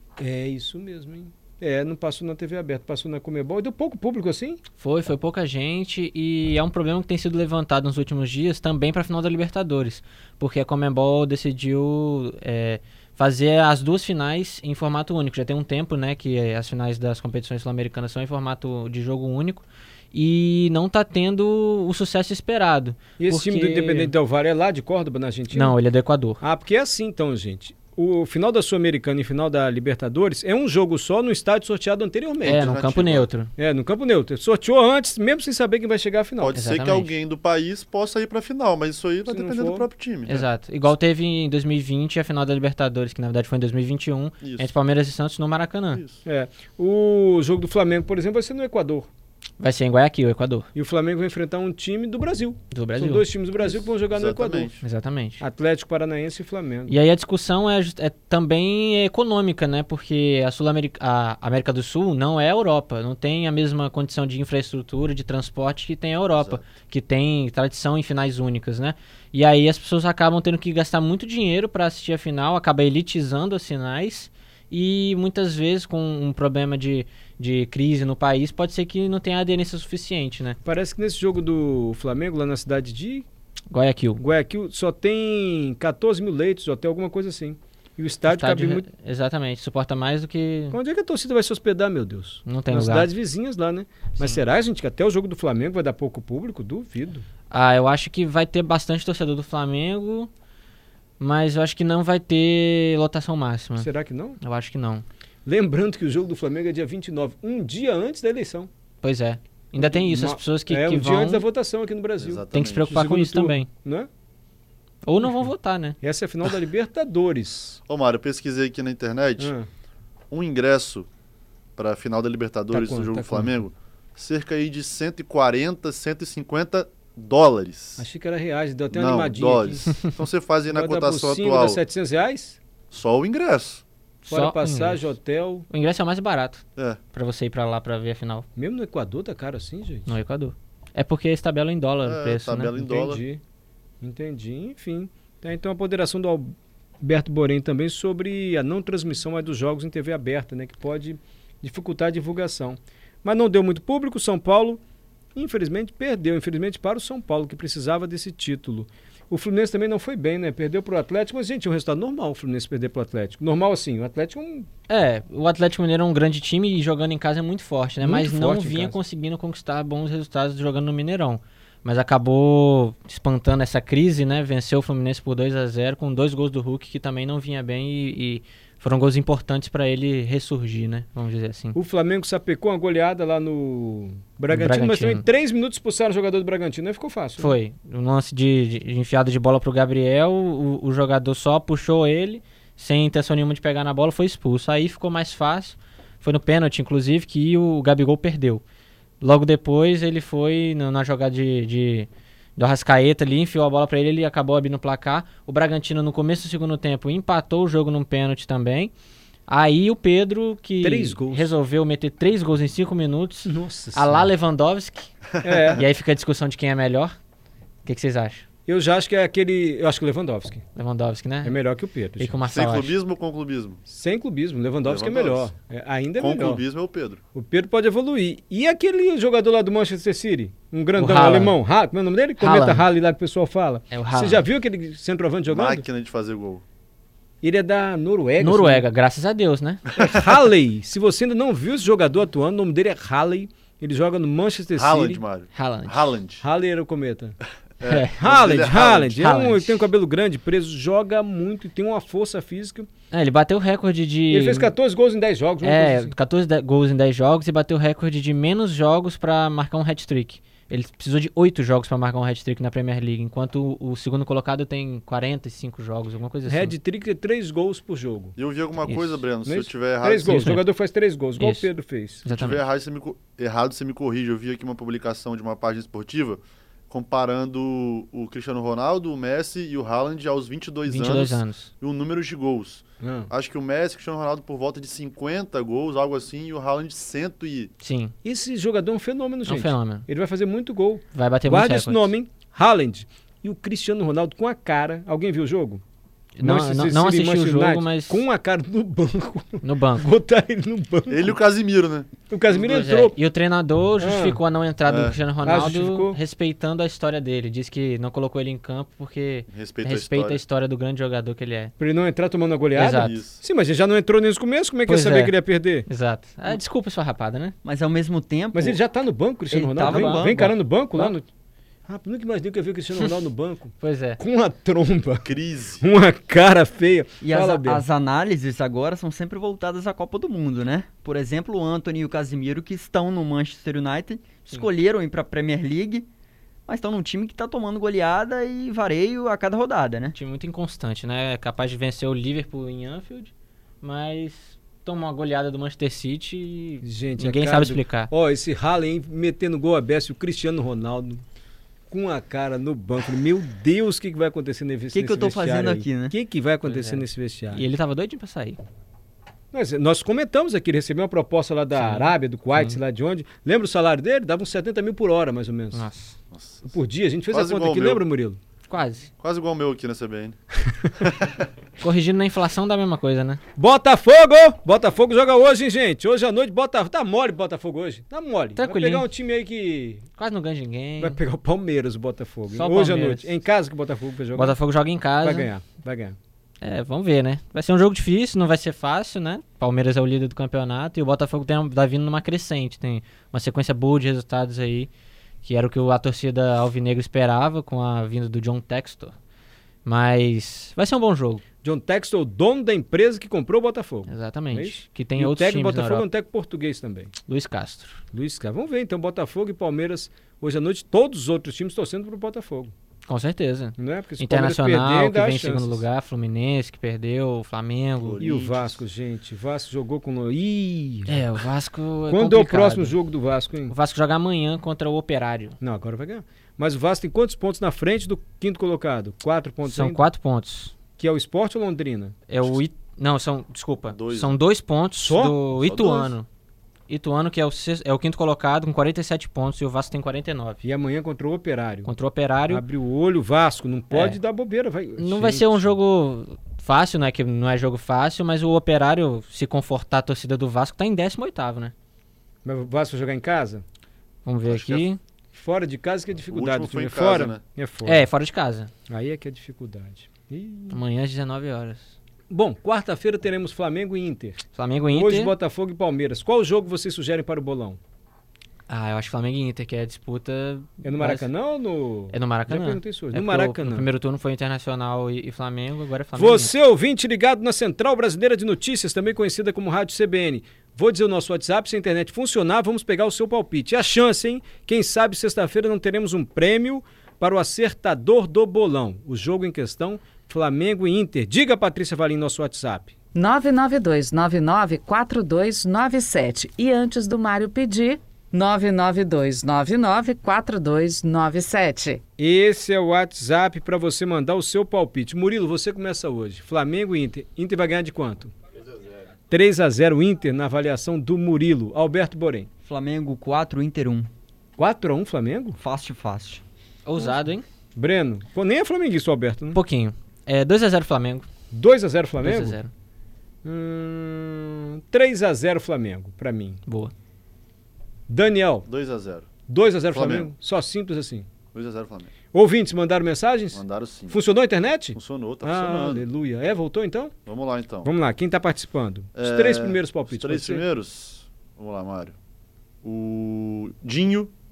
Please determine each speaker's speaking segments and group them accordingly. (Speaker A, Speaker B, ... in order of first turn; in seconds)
Speaker A: 0.2-4.6, 23.2-25.8, 26.4-32.8, 33.6-36.6, 39.3-39.9, 46.2-49.1, 50.8-54.8, 55.4-57.0, 80.7-83.3, 84.2-88.9, 90.7-97.2, 103.8-104.4, 105.5-108.7, 109.8-114.1, 115.2-115.5, 116.0-117.8, 119.4-119.7, 122.7-123.6, 128.0-129.9, 130.7-132.6, 134.3-135.7, 138.6-140.1, 142.8-143.4, 144.0-154.8, 155.3-164.7, 168.0-169.0, 181.8-187.6, 210.8-211.5, 213.4-214.3, 215.4-215.8, 218.7-220.7, 221.4-222.4, 223.9-226.6, 227.3-235.8, 237.4-238.8, 239.9-245.2, 246.4-247.4, 248.2-252.9, 254.3-256.1, 266.5-268.4, 269.4-272.2, 283.0-283.3, 288.2-295.8, 296.4-301.4, 302.3-303.2, 304.0-304.4, 305.4-306.2, 311.8-315.9, 318.5-321.3, 321.9-325.3, 325.8-327.9, 346.8-351.2, 351.9-357.7, 359.5-365.8, 366.6-368.4, 373.6-380.1, 381.0-384.6, 385.2-386.2, 401.6-407.1, 408.1-412.7, 413.8-415.9, 418.2-421.2, 422.1-423.7, 425.6-430.0, 431.0-432.6, 435.0-435.4, 440.6-441.9, 442.5-445.7, 452.4-453.6, 455.3-458.0, 458.9-460.8, 462.3-467.8, 470.8-473.9, 476.2-492.9, 502.2-508.3, 509.3-512.5, 514.6-515.6, 517.8-519.6, 521.5-522.6, 523.4-526.6, 528.1-528.7, 529.5-531.3, 532.3-537.1, 537.8-540.6
Speaker B: 4.8-24.1, 25.5-26.4, 32.4-33.5, 36.5-37.1, 40.3-46.0, 49.6-50.7, 52.7-53.2, 54.8-55.4, 56.9-80.6, 83.7-84.2, 88.2-90.8, 92.5-93.1, 97.5-100.3, 101.2-105.0, 109.0-111.4, 112.5-113.7, 115.0-116.0, 134.2-135.1, 135.7-138.5, 140.1-143.2, 164.9-181.8, 184.5-185.3, 187.4-198.6, 199.2-208.9, 209.5-215.1, 215.7-217.1, 217.8-218.4, 220.8-221.6, 222.2-223.0, 230.9-231.6, 232.4-232.9, 233.9-234.5, 238.4-239.8, 245.5-246.1, 247.8-248.2, 249.2-249.9, 253.1-254.8, 255.6-266.7, 268.8-269.2, 270.2-270.7, 271.4-271.7, 272.2-272.6, 280.9-281.7, 287.8-288.1, 289.4-290.1, 291.1-292.1, 296.4-298.3, 299.6-300.1, 302.7-311.7, 312.8-313.2, 314.9-315.4, 315.9-317.6, 323.8-324.2, 340.2-348.1, 356.6-358.6, 361.7-362.8, 365.7-366.2, 368.7-369.1, 371.8-373.4, 378.6-379.1, 380.2-381.2, 382.5-383.4, 384.3-385.5, 386.6-394.9, 395.4-399.1, 399.9-401.4, 404.1-406.1, 407.3-408.0, 413.1-418.2, 421.1-423.0, 423.7-425.6, 429.6-430.7, 432.3-436.3, 436.9-440.6, 441.9-442.6, 443.9-444.2, 445.0-451.7, 454.2-455.0, 457.9-458.7, 460.7-461.9, 464.5-465.3, 468.7-471.3, 472.1-476.5, 516.9-517.5, 519.5-521.3, 522.2-522.7, 526.7-526.9
Speaker C: 32.4-33.3, 36.4-40.5, 44.4-44.7, 45.9-46.2, 53.6-54.8, 112.2-113.0, 117.9-119.5, 120.3-121.1, 121.8-128.1, 128.9-131.8, 132.9-133.8, 142.1-143.2, 222.5-223.8, 224.8-225.5, 226.2-227.2, 235.5-236.6, 244.8-246.4, 247.8-249.2, 268.4-270.6, 272.3-287.7, 301.1-302.9, 304.9-305.2, 309.5-310.4, 312.9-313.4, 325.2-325.9, 366.3-366.7, 367.3-368.0, 369.2-371.4, 418.0-418.8, 433.9-434.4, 435.5-436.1, 454.5-454.9, 456.3-457.4, 528.7-529.3, 529.9-530.3, 531.5-532.1, 533.5-534.2, 535.0-536.1, 537.3-537.9, 539.2-542.2, 542.8-544.3
Speaker D: 317.7-318.7, 319.6-320.5, 327.3-336.0, 336.7-340.1, 354.9-356.1, 512.7-514.1, 515.6-516.4
Speaker E: 493.3-501.9